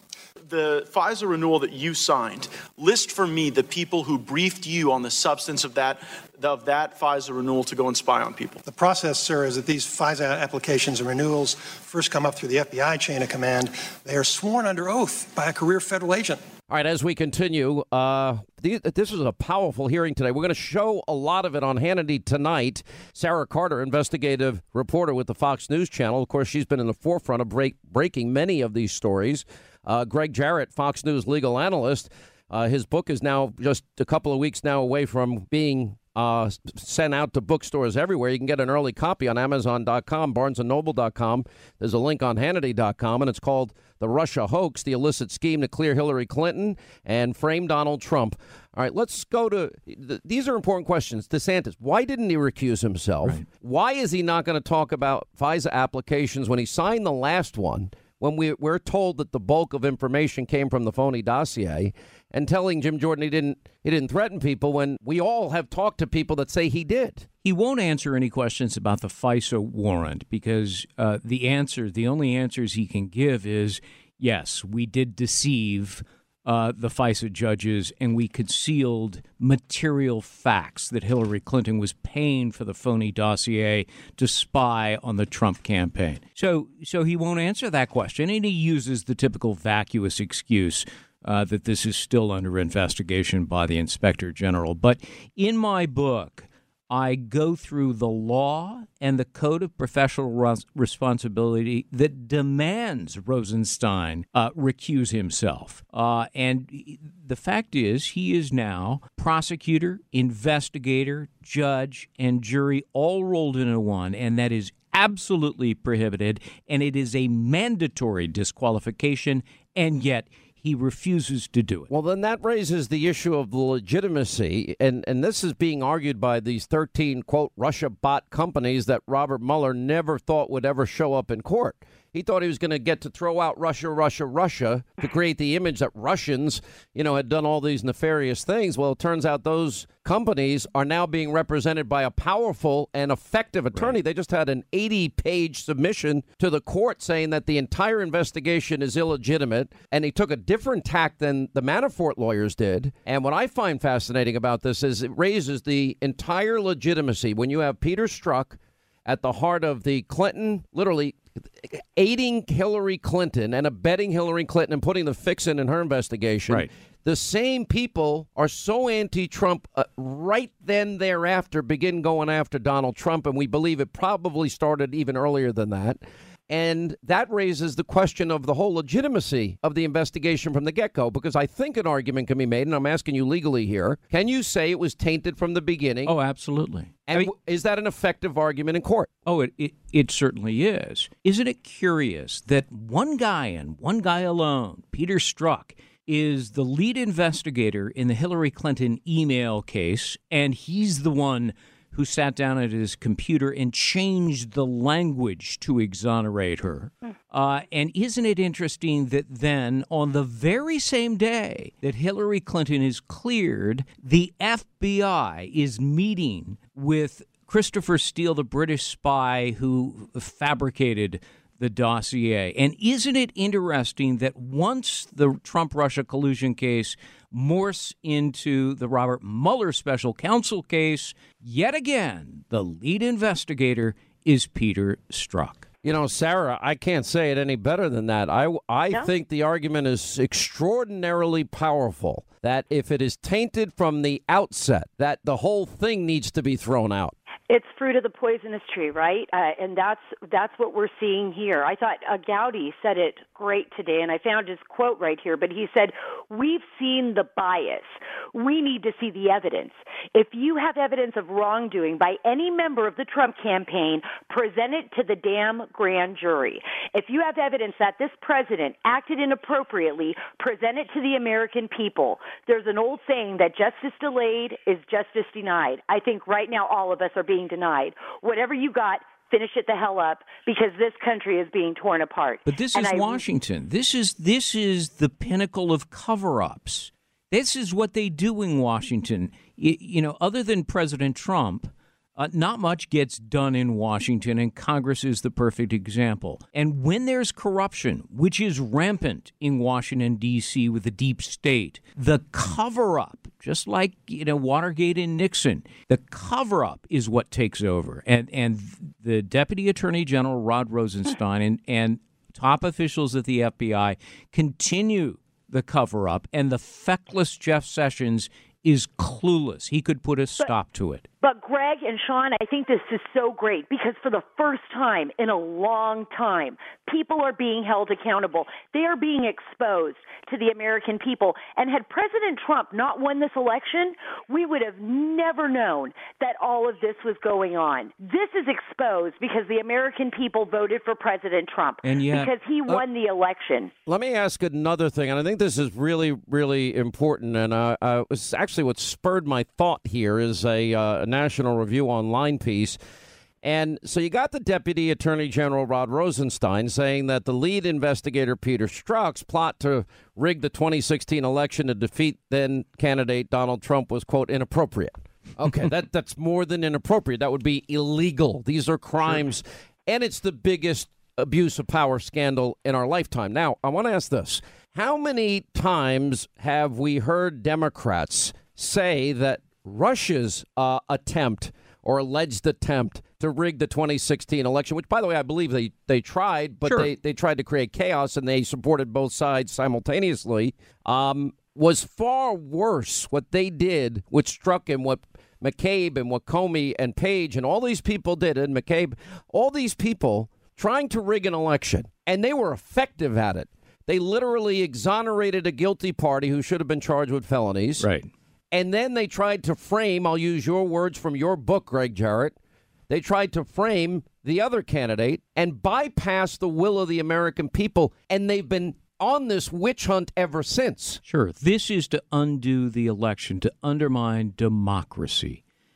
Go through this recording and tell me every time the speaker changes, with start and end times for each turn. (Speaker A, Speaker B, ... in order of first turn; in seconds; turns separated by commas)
Speaker A: 0.4-8.6, Speaker B: 8.6-16.4, Speaker C: 16.7-67.3, Speaker D: 67.4-121.9, Speaker C: 121.9-186.1, Speaker D: 143.7-144.0, Speaker D: 186.1-187.3, Speaker C: 187.1-189.1, Speaker D: 189.2-235.7, Speaker C: 235.8-247.1, Speaker E: 247.5-283.2, Speaker D: 282.4-321.1, Speaker E: 321.2-343.7, Speaker D: 341.8-342.3, Speaker C: 343.9-352.8, Speaker C: 353.4-407.9, Speaker D: 386.6-386.9, Speaker D: 407.8-408.1, Speaker C: 408.5-412.3, Speaker C: 412.9-421.0, Speaker D: 421.1-425.4